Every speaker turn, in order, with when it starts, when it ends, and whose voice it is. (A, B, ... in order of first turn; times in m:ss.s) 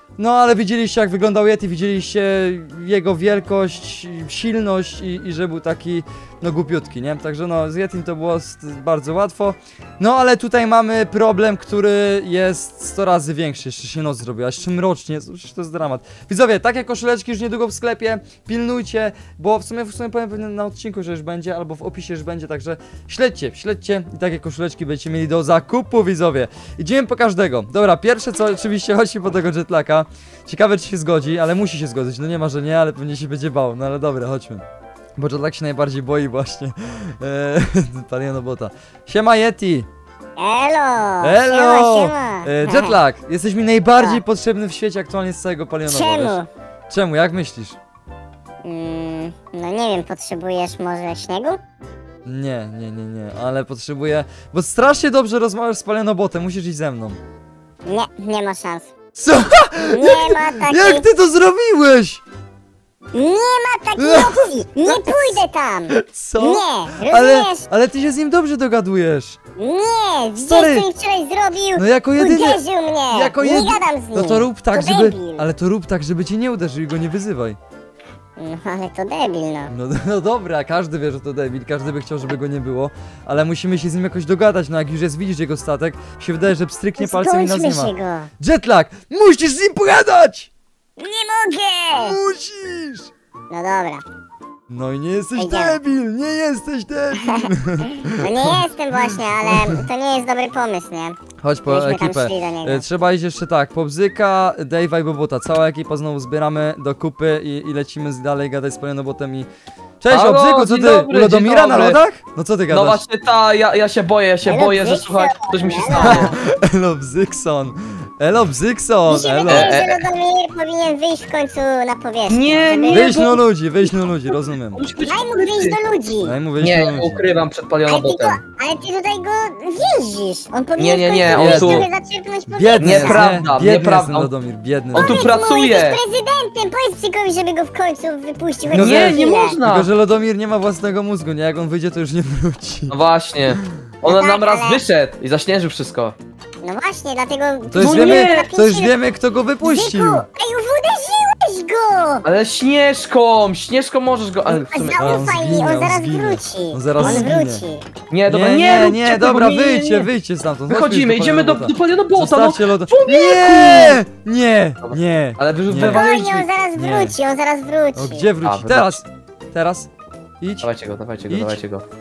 0:00.2-0:34.6 A
0:35.2-0:39.9 A
0:40.4-0:43.0 B
0:41.2-0:47.8 A
0:44.0-0:44.2 B
0:45.9-0:46.5 B
0:48.6-0:51.6 B
0:52.2-0:57.2 A
0:57.9-0:58.9 B
0:59.2-1:02.2 A
0:59.9-1:01.1 B
1:03.1-1:07.6 B
1:04.0-1:05.4 A
1:06.0-1:09.4 A
1:09.6-1:15.5 B
1:10.5-1:10.9 A
1:11.8-1:17.6 A
1:18.4-1:19.7 B
1:19.7-1:30.5 A
1:27.0-1:28.3 B
1:31.0-1:32.2 B
1:32.0-1:33.1 A
1:33.5-1:34.0 B
1:34.7-1:38.6 A
1:35.4-1:35.8 B
1:37.2-1:37.5 B
1:38.0-1:42.8 B
1:39.5-1:39.8 A
1:41.4-1:49.5 A
1:50.0-1:53.0 A
1:50.1-1:52.0 C
1:52.7-1:56.4 C
1:54.4-1:56.3 B
1:56.0-1:59.8 A
1:59.1-2:03.2 B
1:59.5-2:00.1 C
2:02.3-2:03.4 C
2:02.9-2:04.8 A
2:04.7-2:05.8 C
2:05.1-2:06.4 B
2:06.2-2:07.2 A
2:06.6-2:08.4 C
2:07.9-2:13.4 B
2:10.8-2:11.9 C
2:11.3-2:11.9 A
2:12.5-2:15.3 A
2:12.8-2:14.3 C
2:14.9-2:16.0 C
2:15.0-2:19.6 B
2:18.7-2:19.9 C
2:18.7-2:23.0 A
2:22.9-2:26.2 C
2:24.0-2:24.8 B
2:26.6-2:29.0 B
2:27.7-2:30.2 A
2:27.8-2:28.5 C
2:29.6-2:32.2 B
2:32.2-2:35.2 C
2:34.5-2:37.9 B
2:35.0-2:37.6 A
2:37.0-2:37.3 C
2:38.1-2:40.1 C
2:38.3-2:46.1 A
2:40.7-2:44.0 C
2:44.8-2:46.5 C
2:45.8-2:48.3 B
2:46.8-2:47.2 A
2:48.0-2:49.9 A
2:48.4-2:49.0 C
2:50.4-2:50.7 A
2:50.6-2:51.8 C
2:51.3-2:51.6 A